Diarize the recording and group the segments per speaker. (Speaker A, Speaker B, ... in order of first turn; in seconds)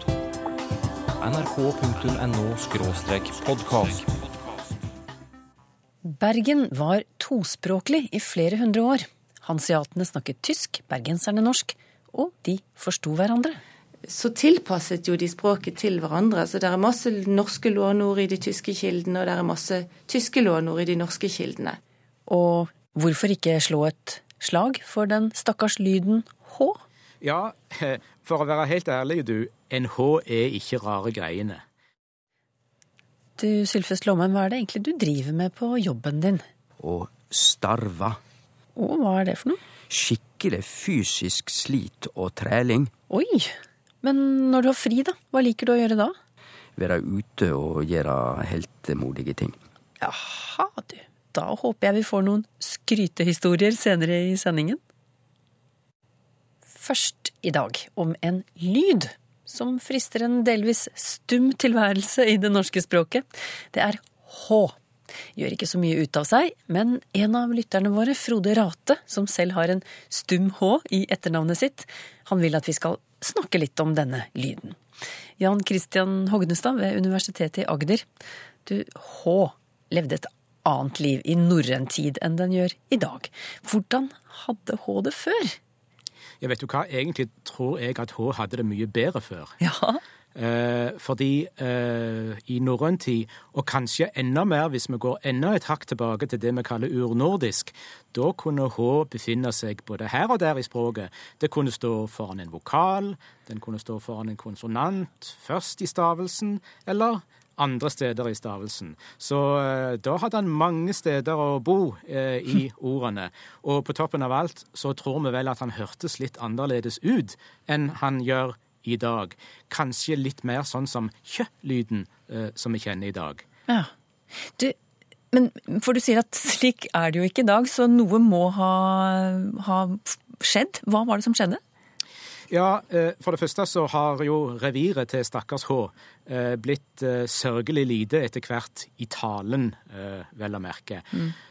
Speaker A: 1.2-4.1
Speaker B: 6.0-13.6, 22.3-26.8, 33.4-36.4, 38.8-39.6, 43.1-46.1, 50.0-54.8, 56.7-64.8, 65.4-74.8, 75.4-78.1, 78.7-85.6, 89.6-90.0, 124.5-124.8, 125.3-131.6
Speaker C: 14.1-21.8
Speaker D: 27.2-31.6, 86.4-89.6, 90.3-123.4, 132.5-141.1
Speaker E: 36.8-38.2, 39.9-42.9, 46.8-49.6